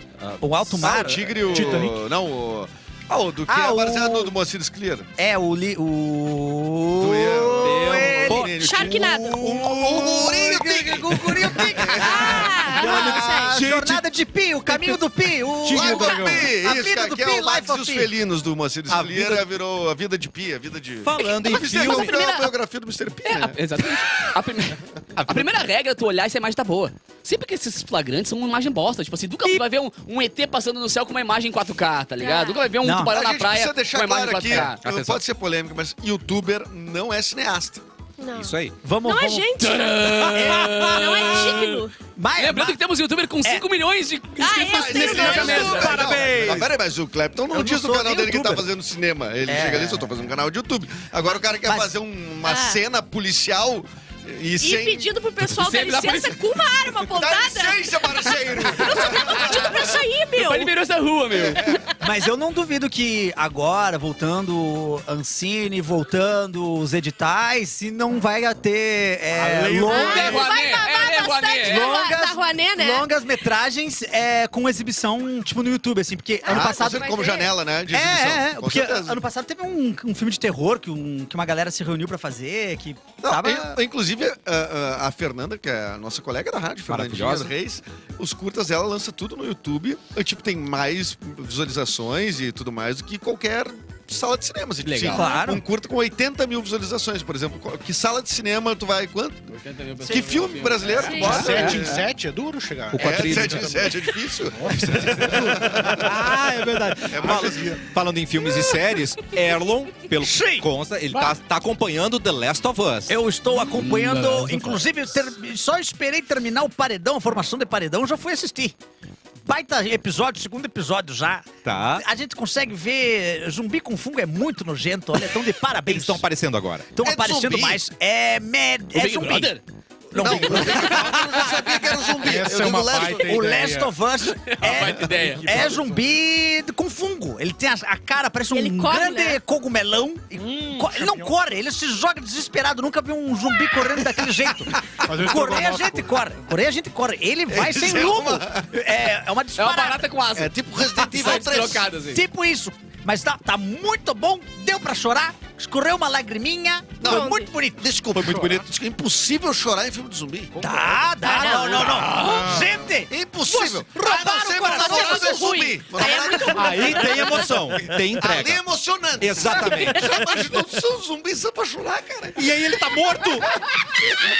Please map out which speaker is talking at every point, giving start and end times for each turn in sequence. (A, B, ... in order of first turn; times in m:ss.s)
0:00.2-0:01.1 A
0:00.4-0:01.9 B
0:00.8-0:05.1 C
0:01.5-0:02.0 D
0:03.5-0:04.3 B
0:05.2-0:18.1 B
0:07.0-0:13.2 C
0:07.6-0:08.6 A
0:08.6-0:09.4 E
0:12.0-0:13.6 E
0:15.6-0:16.5 D
0:15.7-0:23.6 C
0:18.9-0:19.4 A
0:21.0-0:22.2 A
0:21.8-0:22.4 F
0:23.2-0:34.8 F
0:25.2-0:25.5 A
0:32.2-0:32.7 E
0:32.8-0:33.1 B
0:33.0-0:37.8 C
0:34.5-0:35.2 A
0:38.2-0:40.1 E
0:38.4-0:38.8 A
0:38.8-0:39.5 B
0:39.6-0:41.8 F
0:40.3-0:41.6 B
0:40.4-0:40.8 A
0:40.9-0:41.9 E
0:42.1-0:42.8 B
0:42.4-0:46.0 F
0:44.4-0:45.9 E
0:44.6-0:55.1 C
0:44.9-0:46.7 B
0:45.2-0:46.7 A
0:47.5-0:48.7 B
0:49.4-0:50.3 B
0:51.6-0:51.9 B
0:52.4-0:52.8 E
0:54.6-1:00.7 E
0:55.6-0:56.4 F
0:57.1-1:00.0 C
1:00.4-1:01.7 F
1:01.3-1:01.8 C
1:02.0-1:10.4 B
1:09.3-1:10.3 D
1:09.8-1:13.1 E
1:09.9-1:11.9 F
1:11.6-1:17.1 B
1:16.4-1:17.5 E
1:16.5-1:19.2 C
1:17.9-1:23.8 B
1:23.2-1:39.5 C
1:26.9-1:27.5 A
1:34.8-1:35.3 F
1:35.1-1:35.6 B
1:39.5-1:42.0 F
1:40.0-1:42.1 C
1:41.0-1:41.5 E
1:41.2-1:45.6 D
1:42.9-1:43.9 A
1:43.0-1:46.1 C
1:45.3-1:53.2 A
1:47.1-1:47.8 C
1:50.2-1:51.3 B
1:53.1-1:58.8 B
1:53.7-1:54.8 F
1:59.5-2:06.3 B
2:01.6-2:02.0 A
2:05.9-2:06.9 A
2:06.9-2:09.6 B
2:07.0-2:07.8 C
2:08.9-2:09.6 F
2:10.1-2:11.2 B
2:10.2-2:13.4 C
2:10.2-2:10.9 F
2:12.2-2:13.9 D
2:13.2-2:30.0 B
2:14.4-2:15.7 F
2:15.0-2:16.0 D
2:18.5-2:19.4 E
2:20.4-2:21.3 D
2:25.0-2:26.2 D
2:27.5-2:28.7 C
2:29.6-2:32.2 F
2:30.4-2:31.9 C
2:32.1-2:37.8 B
2:37.0-2:40.9 C
2:37.1-2:37.5 E
2:40.6-2:46.1 B
2:41.3-2:42.6 F
2:41.3-2:41.8 E
2:42.1-2:42.7 D
2:43.1-2:52.5 C
2:44.7-2:47.5 E
2:46.5-2:48.6 A
2:46.8-2:47.5 B
2:49.2-2:50.5 A
2:52.4-2:53.6 A